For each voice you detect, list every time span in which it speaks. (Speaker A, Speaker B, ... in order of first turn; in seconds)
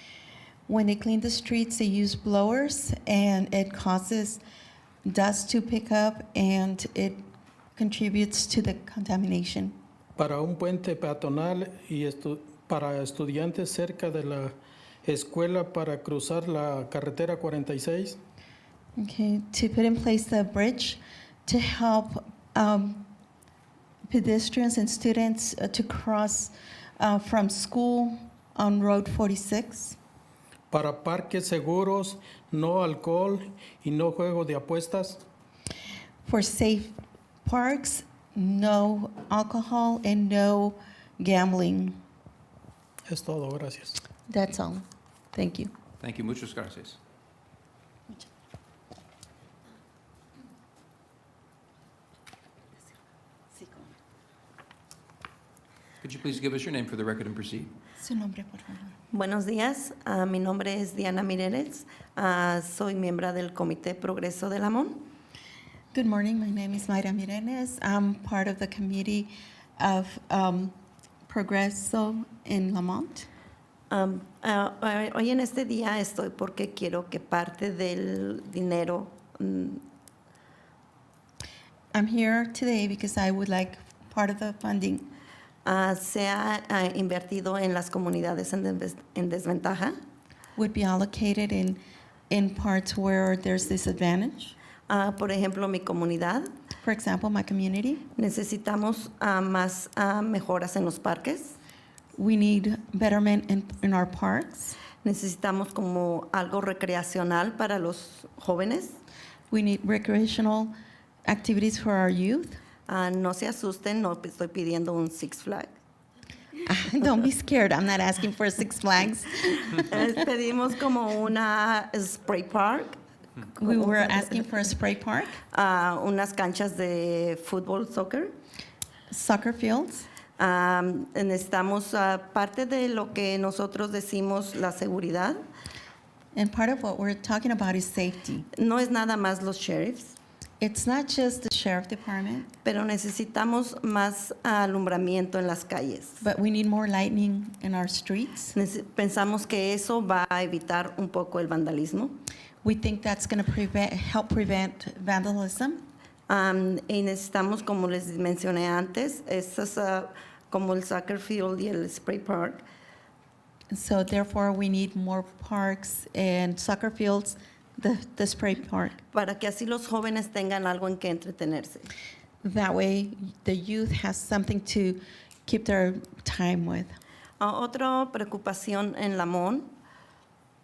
Speaker A: 0.7-4.4, 5.0-7.2, 7.8-9.8, 19.0-23.1, 24.1-30.0, 36.2-42.0, 44.3-45.7, 53.5-53.9, 58.0-59.0, 65.9-70.7, 71.3-73.3, 81.9-85.1, 90.5-94.5, 96.8-98.0, 102.2-104.8, 109.5-110.7, 111.2-112.6, 116.6-120.0, 123.5-125.4, 129.1-130.1, 136.3-138.5, 140.6-142.5, 146.2-148.5, 152.6-155.8, 163.7-169.0, 172.4-177.0
Speaker B: 10.2-18.2, 30.7-35.2, 43.1-44.0
Speaker C: 46.0-47.0, 56.0-57.7
Speaker D: 59.1-65.1, 73.9-79.8, 85.6-90.0, 94.9-96.5, 98.1-101.6, 105.0-109.0, 112.9-115.7, 119.7-123.0, 123.6-124.3, 125.5-128.3, 130.4-135.4, 138.5-140.2, 142.6-146.2, 148.5-152.2, 156.3-162.6, 169.1-171.9, 177.4-179.7